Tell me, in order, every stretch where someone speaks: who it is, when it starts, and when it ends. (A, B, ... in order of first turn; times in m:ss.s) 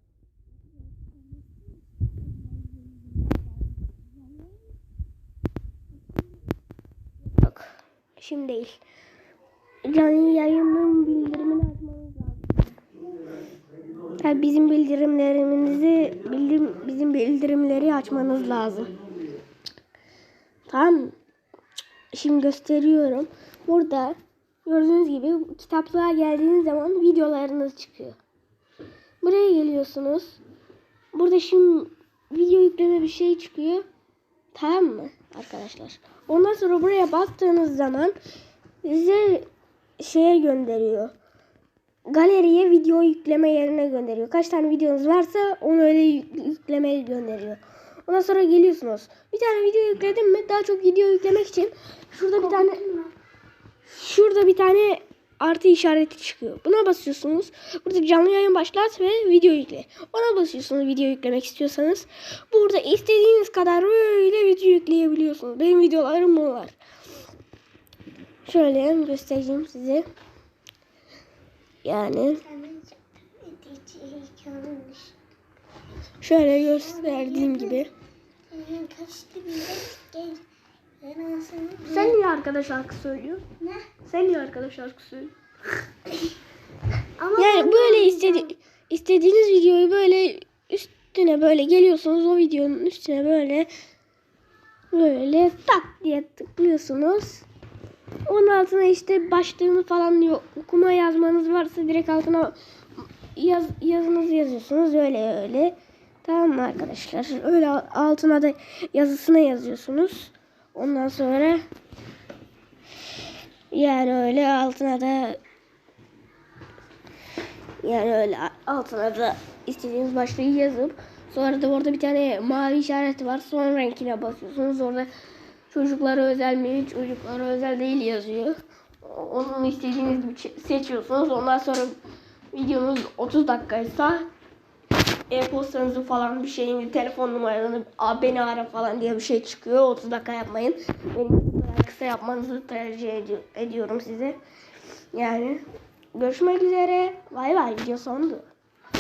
0:01.1-0:04.5 A
0:07.4-0:08.8 B
0:09.9-0:12.8 B
0:14.2-0:18.9 B
0:20.7-0:21.2 B
0:22.1-0:28.2 B
0:29.2-0:30.4 B
0:31.1-0:33.8 B
0:34.5-0:38.2 B
0:38.8-0:39.5 B
0:40.0-0:41.1 B
0:42.1-0:52.8 B
0:52.6-0:53.1 A
0:53.9-1:06.8 B
1:08.4-1:10.1 B
1:11.8-1:12.4 B
1:12.4-1:15.2 A
1:16.2-1:17.9 B
1:16.7-1:17.8 A
1:18.5-1:20.4 A
1:21.0-1:22.2 A
1:21.8-1:23.4 B
1:24.0-1:25.3 B
1:27.2-1:28.5 A
1:27.4-1:33.7 B
1:34.9-1:37.4 B
1:38.3-1:42.6 B
1:43.4-1:51.6 B
1:53.7-1:55.4 B
1:57.8-2:05.1 B
2:05.7-2:12.0 B
2:12.5-2:14.3 B
2:15.3-2:24.4 B
2:25.1-2:25.6 B
2:26.1-2:28.5 B